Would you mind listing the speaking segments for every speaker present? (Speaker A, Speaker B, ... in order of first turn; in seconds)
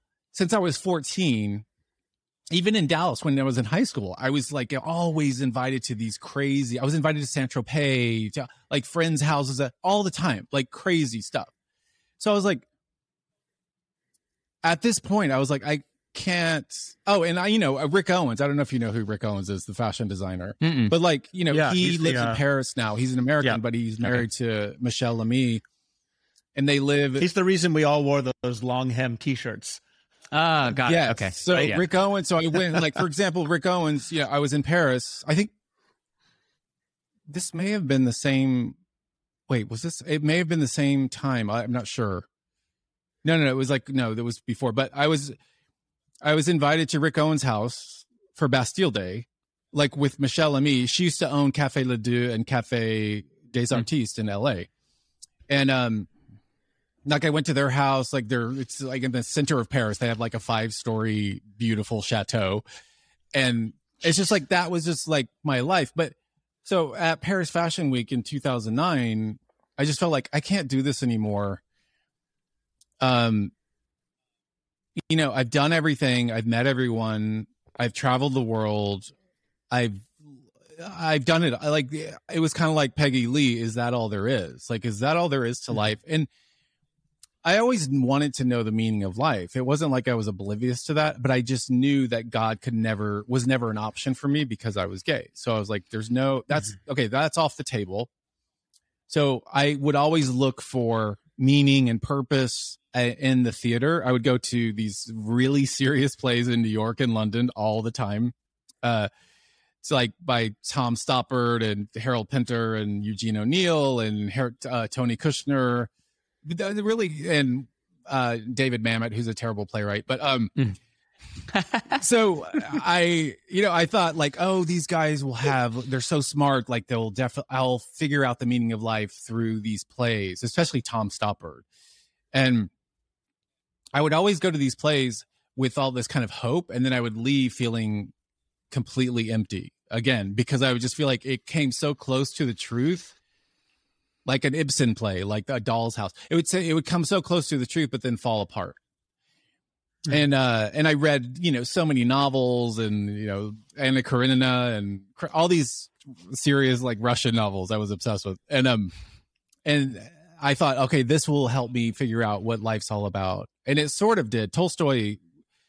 Speaker A: 0.3-1.6, 2.5-11.5, 12.2-12.7, 14.6-25.6, 26.5-27.3, 30.8-35.5, 37.3-38.8, 39.5-42.3, 43.2-45.4, 46.2-54.7, 55.5-56.1, 57.0-62.6, 63.3-71.6, 73.0-73.5, 75.0-79.1, 79.7-86.3, 87.4-98.1, 99.1-109.1, 109.8-115.9, 116.4-120.5, 121.9-131.6, 132.3-132.7, 133.9-138.1, 138.7-143.2, 144.2-148.8, 150.1-158.9, 159.6-165.2
Speaker B: 20.6-20.9, 30.3-31.8, 121.5-122.0
Speaker C: 21.5-22.4, 27.2-29.8